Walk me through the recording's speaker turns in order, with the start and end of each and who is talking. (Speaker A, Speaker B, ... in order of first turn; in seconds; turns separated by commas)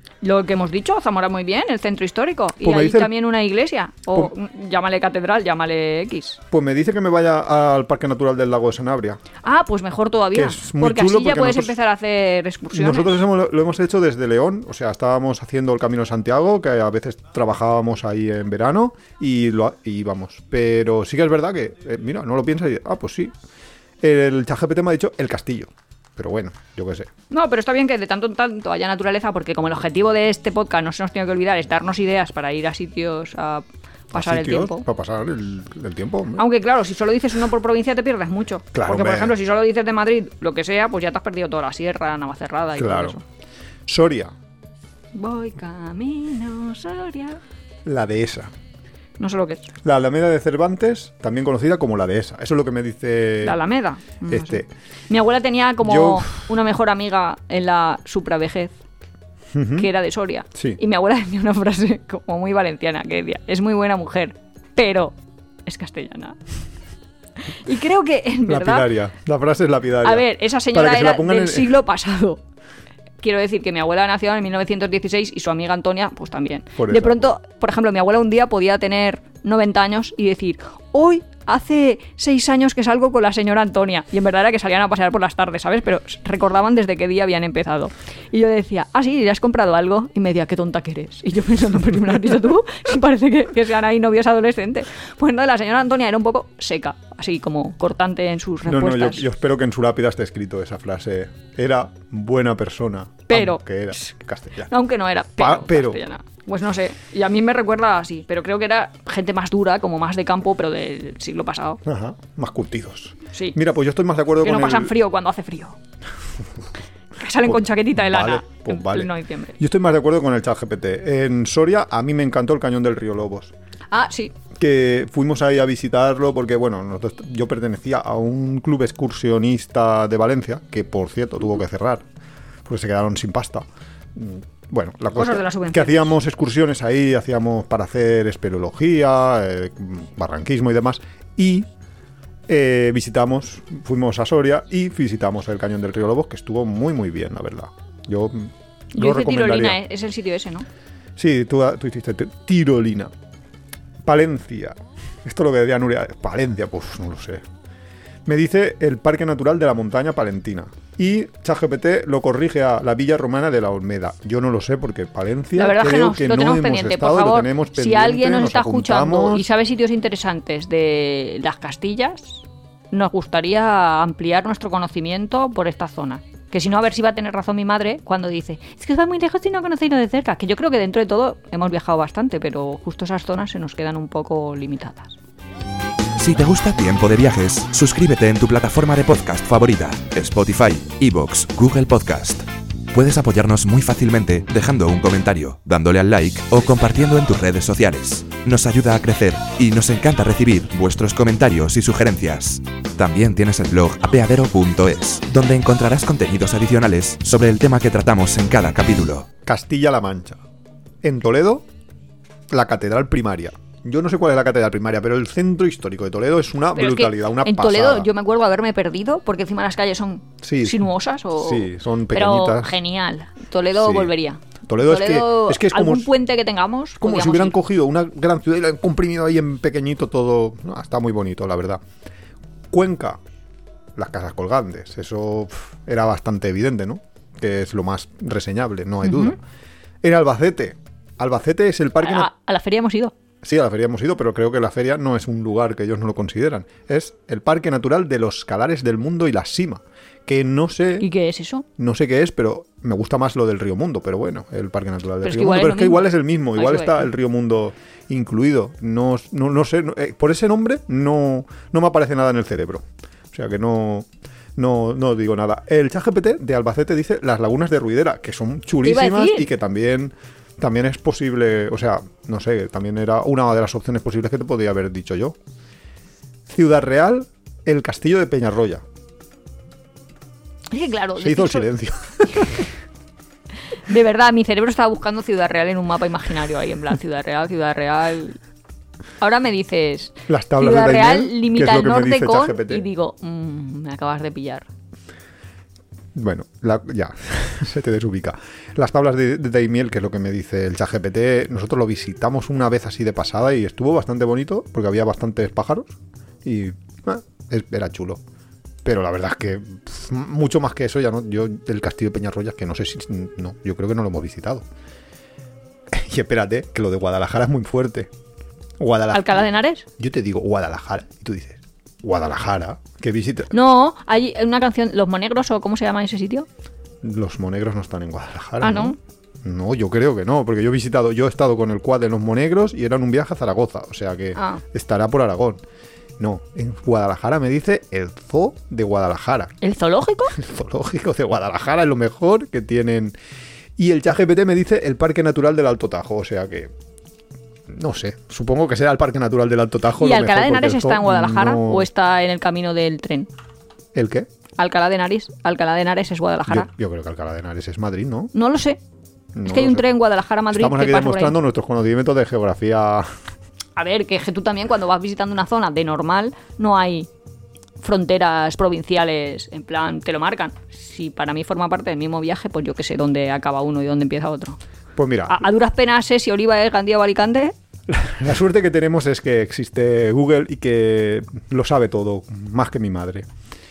Speaker A: 0.2-6.4, Speaker B: 2.6-3.1, Speaker B: 6.5-9.2, Speaker A: 9.4-13.2, Speaker B: 10.3-11.7, Speaker B: 12.7-23.3, Speaker B: 24.0-27.1, Speaker A: 27.3-34.9, Speaker B: 34.1-36.4, Speaker A: 36.4-43.2, Speaker B: 38.7-39.4, Speaker B: 42.8-43.2, Speaker B: 43.9-44.3, Speaker A: 45.1-47.4, Speaker B: 47.8-48.5, Speaker A: 49.2-49.7, Speaker B: 49.8-53.6, Speaker A: 53.4-58.8, Speaker B: 54.3-54.6, Speaker B: 55.8-56.3, Speaker B: 59.5-59.9, Speaker A: 59.8-66.4, Speaker B: 60.5-60.8, Speaker A: 67.4-68.9, Speaker B: 68.5-71.8, Speaker A: 70.0-72.4, Speaker A: 73.2-99.2, Speaker B: 76.8-77.3, Speaker B: 98.6-104.7, Speaker A: 103.3-104.1, Speaker A: 104.7-111.8, Speaker B: 105.4-106.0, Speaker B: 111.8-114.9, Speaker A: 114.4-115.8, Speaker A: 117.2-119.6, Speaker B: 117.4-123.5, Speaker A: 123.9-124.3, Speaker B: 124.5-132.0, Speaker B: 132.6-141.7, Speaker A: 135.1-136.1, Speaker B: 142.5-149.8, Speaker A: 148.9-150.7, Speaker B: 151.2-153.1, Speaker B: 154.0-157.4, Speaker B: 158.2-169.5, Speaker A: 165.6-185.2, Speaker C: 186.2-209.3, Speaker B: 209.4-210.4, Speaker B: 211.0-211.7, Speaker B: 212.5-218.1, Speaker A: 216.7-227.6, Speaker B: 220.4-220.8, Speaker B: 221.4-222.8, Speaker B: 223.7-224.1, Speaker B: 224.7-226.1, Speaker B: 227.0-231.8, Speaker B: 232.7-233.2, Speaker B: 233.9-239.4, Speaker A: 239.0-239.3, Speaker B: 240.0-242.3, Speaker A: 242.0-243.1, Speaker B: 243.4-251.1, Speaker A: 251.0-251.6, Speaker B: 251.8-275.4, Speaker A: 255.2-257.1, Speaker A: 268.8-269.5, Speaker B: 276.5-278.8, Speaker A: 280.7-281.7, Speaker B: 281.2-282.6, Speaker A: 282.3-282.6, Speaker A: 283.8-288.4, Speaker A: 289.2-294.7, Speaker B: 290.3-292.8, Speaker B: 296.1-305.9, Speaker B: 306.4-308.2, Speaker B: 308.8-314.6, Speaker B: 315.9-318.1, Speaker B: 318.8-319.4, Speaker A: 319.1-319.9, Speaker B: 320.0-323.5, Speaker A: 323.5-326.5, Speaker B: 327.0-335.6, Speaker A: 328.6-329.0, Speaker A: 334.4-334.6, Speaker B: 336.2-339.5, Speaker A: 339.6-340.4, Speaker B: 340.3-343.1, Speaker B: 343.8-346.7, Speaker B: 347.7-351.9, Speaker A: 350.0-353.3, Speaker B: 353.9-354.3, Speaker A: 354.6-356.7, Speaker B: 356.5-358.3, Speaker A: 358.3-358.8, Speaker B: 359.3-359.9, Speaker A: 359.4-361.4, Speaker B: 360.5-363.1, Speaker A: 363.8-367.1, Speaker A: 367.8-374.6, Speaker B: 374.9-375.4, Speaker A: 375.3-377.5, Speaker B: 377.9-383.3